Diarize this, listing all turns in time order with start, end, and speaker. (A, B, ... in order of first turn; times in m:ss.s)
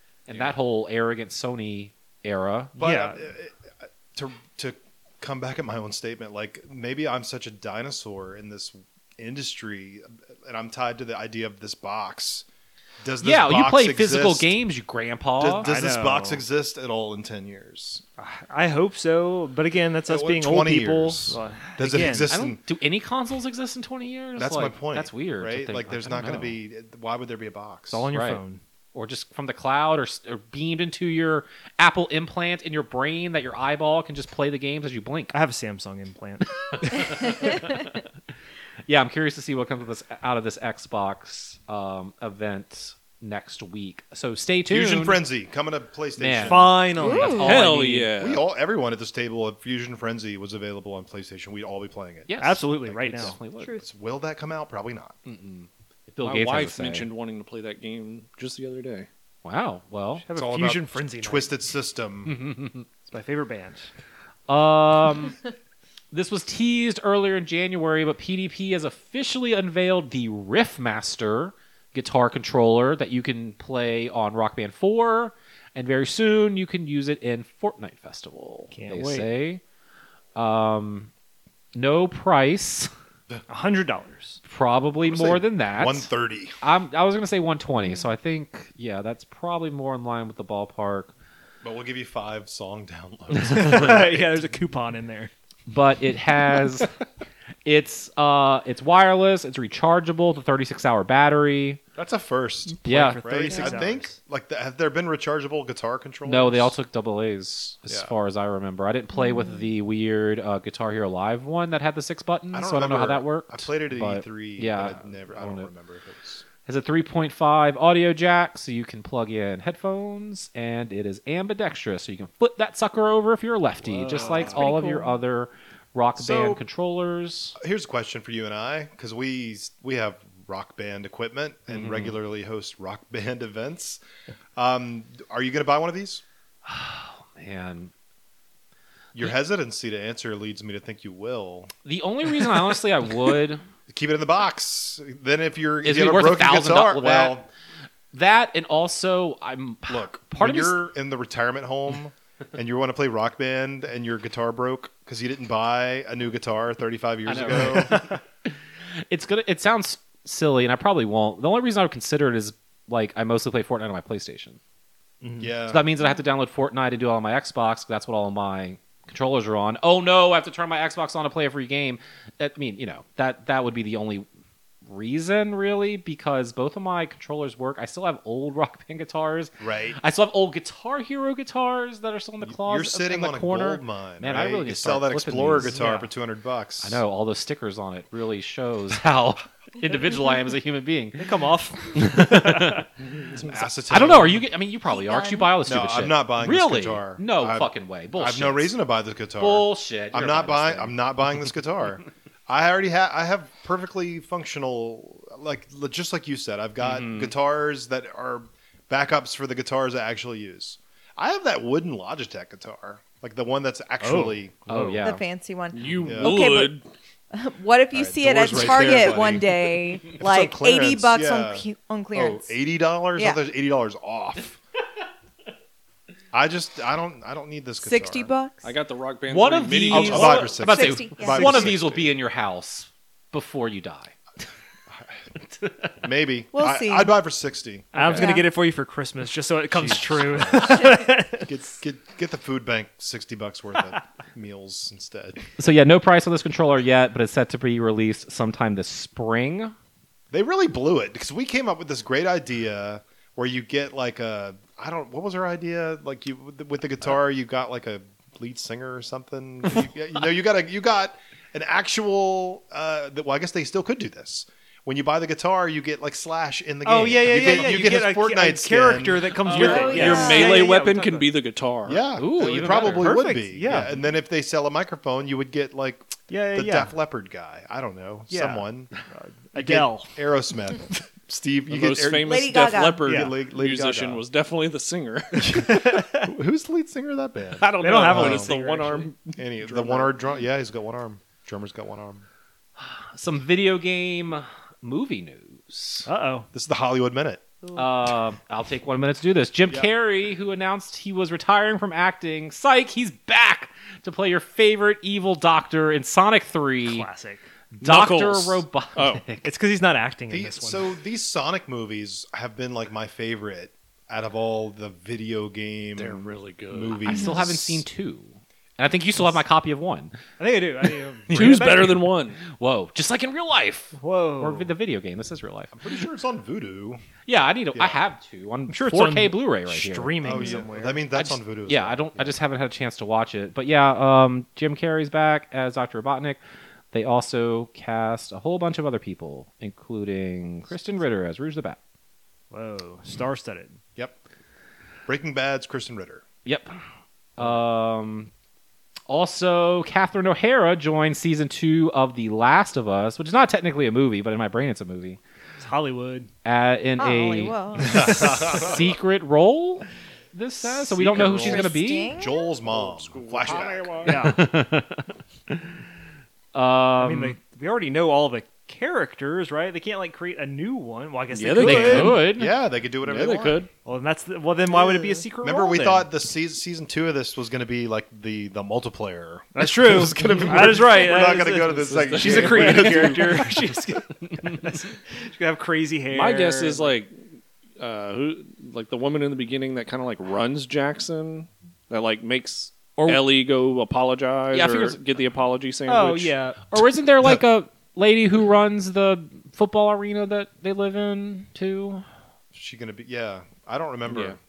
0:00.3-0:02.8 A
0:02.8-0:03.6 B
0:02.8-0:03.2 C
0:04.1-0:12.4 B
0:13.0-0:14.5 B
0:13.2-0:15.7 A
0:15.4-0:18.0 B
0:15.6-0:16.4 C
0:18.2-0:22.3 C
0:20.1-0:22.6 B
0:22.2-0:26.6 A
0:24.4-0:28.0 B
0:27.9-0:28.6 C
0:28.1-0:28.4 A
0:28.9-0:35.3 A
0:35.3-0:37.6 C
0:36.8-0:37.9 A
0:38.9-0:45.2 A
0:44.7-0:47.2 B
0:46.2-0:48.1 A
0:46.4-0:48.0 C
0:47.0-0:47.5 D
0:47.4-0:48.4 E
0:48.2-0:52.3 B
0:52.3-0:53.7 A
0:52.3-0:53.4 C
0:52.8-0:55.2 B
0:53.6-0:53.8 D
0:55.2-0:57.1 A
0:56.2-0:59.1 E
0:59.4-1:00.2 A
1:00.2-1:01.6 C
1:00.3-1:02.3 B
1:02.2-1:02.9 A
1:03.0-1:03.9 C
1:04.5-1:05.4 A
1:06.1-1:19.6 A
1:18.7-1:19.3 C
1:20.4-1:21.1 A
1:21.7-1:22.9 A
1:23.5-1:24.4 C
1:24.4-1:31.1 A
1:25.0-1:26.6 B
1:31.6-1:34.4 B
1:33.4-1:35.3 C
1:35.7-1:36.9 A
1:37.6-1:41.8 A
1:41.9-1:46.7 B
1:42.8-1:44.2 C
1:42.8-1:43.8 A
1:46.2-1:55.7 A
1:47.9-1:48.1 B
1:52.5-1:56.4 B
1:56.6-2:07.6 A
2:04.1-2:04.6 C
2:04.2-2:04.6 B
2:04.7-2:05.0 D
2:06.2-2:06.6 B
2:07.6-2:14.0 B
2:11.7-2:12.2 A
2:14.6-2:16.2 B
2:16.6-2:17.9 A
2:19.1-2:21.7 B
2:21.8-2:23.6 A
2:23.9-2:27.5 B
2:25.8-2:27.4 A
2:28.1-2:30.9 A
2:29.9-2:38.1 B
2:37.2-2:38.6 A
2:39.1-2:44.6 A
2:45.2-2:45.5 C
2:45.4-2:45.8 B
2:45.7-2:54.3 A
2:54.8-3:05.8 A
2:59.6-3:00.0 B
3:02.4-3:07.0 B
3:05.7-3:06.0 C
3:06.8-3:11.3 A
3:11.2-3:12.8 C
3:11.9-3:12.8 A
3:13.3-3:14.4 B
3:13.9-3:18.7 A
3:14.9-3:15.6 D
3:15.6-3:34.6 B
3:19.4-3:21.0 A
3:26.8-3:27.3 A
3:34.0-3:34.4 C
3:34.7-3:35.2 A
3:35.0-3:36.8 D
3:35.7-3:36.8 E
3:36.0-3:36.4 B
3:37.3-3:42.6 D
3:37.9-3:44.6 B
3:43.2-3:43.4 D
3:46.3-3:48.3 B
3:47.8-3:48.6 D
3:48.6-3:50.5 E
3:49.3-3:54.1 A
3:49.9-3:52.1 B
3:50.5-3:51.8 D
3:55.6-3:55.9 A
3:56.0-3:58.3 B
3:56.5-3:57.2 D
3:57.9-4:01.5 C
3:58.1-3:58.5 D
3:59.7-4:00.9 B
4:01.4-4:05.4 B
4:05.6-4:09.7 A
4:10.3-4:30.2 B
4:26.8-4:31.3 C
4:29.4-4:32.0 E
4:29.5-4:30.7 D
4:31.8-4:38.9 B
4:32.2-4:33.3 A
4:32.5-4:34.0 C
4:36.3-4:36.9 C
4:38.3-4:40.1 C
4:39.5-4:42.5 B
4:41.7-4:45.6 E
4:42.2-4:43.1 D
4:43.0-4:43.3 C
4:43.0-4:44.2 B
4:45.4-4:46.3 C
4:45.5-4:48.5 B
4:47.6-4:50.1 E
4:47.8-4:49.1 C
4:49.4-4:52.2 B
4:52.8-4:56.1 A
4:56.0-4:56.5 C
4:56.5-4:57.4 B
4:57.7-5:07.1 A
5:06.8-5:07.4 C
5:07.8-5:09.5 A
5:07.8-5:09.2 E
5:09.4-5:10.8 C
5:10.3-5:17.8 B
5:16.0-5:17.2 E
5:17.0-5:20.1 A
5:20.4-5:22.0 C
5:21.3-5:21.9 A
5:21.3-5:22.4 E
5:22.4-5:25.7 A
5:24.0-5:24.7 C
5:25.7-5:27.0 B
5:27.2-5:30.6 A
5:27.7-5:28.0 B
5:28.7-5:31.0 C
5:30.2-5:32.4 B
5:31.1-5:36.4 A
5:36.9-5:41.8 A
5:42.5-5:43.8 C
5:45.0-5:46.2 B
5:46.4-5:46.8 A
5:47.4-5:48.3 A
5:49.1-5:55.2 A
5:55.6-5:56.3 C
5:56.4-6:02.1 A
5:57.0-5:58.6 D
5:57.8-5:58.9 B
6:01.0-6:04.0 B
6:01.2-6:02.5 D
6:02.6-6:04.2 E
6:04.0-6:04.4 C
6:04.1-6:05.7 A
6:06.5-6:07.4 A
6:07.0-6:12.2 C
6:11.3-6:12.2 E
6:11.6-6:12.5 A
6:12.3-6:13.6 B
6:13.0-6:13.7 E
6:13.8-6:16.0 C
6:15.4-6:23.3 B
6:19.5-6:26.9 C
6:20.0-6:23.5 E
6:26.1-6:36.3 E
6:33.0-6:33.2 A
6:34.5-6:35.0 A
6:35.9-6:36.6 C
6:36.7-6:42.0 A
6:42.5-6:44.4 B
6:44.1-6:44.4 E